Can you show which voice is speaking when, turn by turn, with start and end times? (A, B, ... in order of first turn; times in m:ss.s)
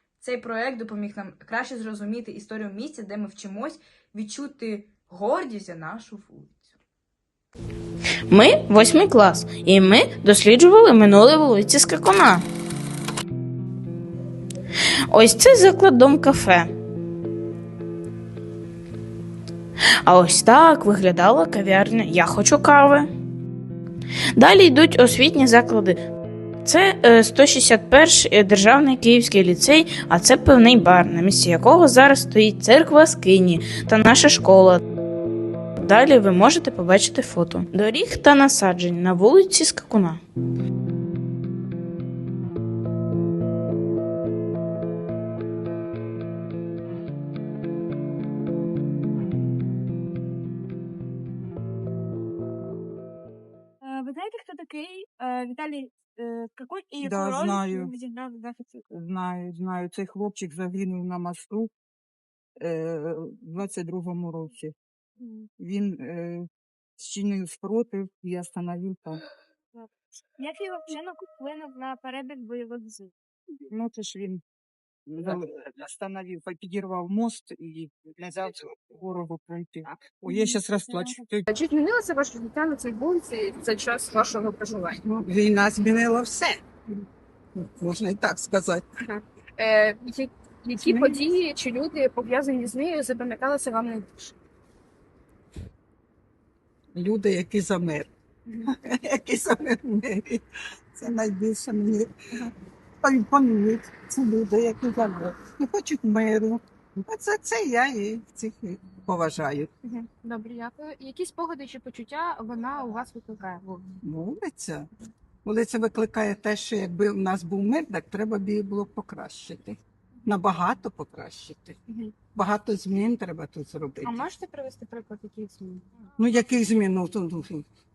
0:00.2-0:06.5 A
0:08.3-0:12.4 B
0:15.1-0:16.7 B
0:20.1-0:23.1 B
0:24.4-0:26.0 B
0:26.6-0:34.8 B
0:35.8-0:40.2 B
0:53.9-0:58.5 C
0:57.0-0:58.0 D
0:58.8-1:01.7 D
1:02.6-1:04.7 D
1:05.6-1:06.5 D
1:07.0-1:09.2 D
1:10.4-1:13.1 C
1:13.7-1:14.4 D
1:15.1-1:21.5 D
1:21.5-1:24.9 E
1:25.0-1:26.6 F
1:27.8-1:28.8 F
1:29.1-1:34.3 E
1:30.8-1:31.2 F
1:36.9-1:38.1 F
1:38.8-1:40.4 F
1:41.0-1:42.5 F
1:43.0-1:49.7 F
1:49.9-1:53.8 E
1:54.0-1:54.9 F
1:55.4-2:01.8 F
2:02.4-2:04.3 F
2:04.0-2:05.8 E
2:06.2-2:07.6 F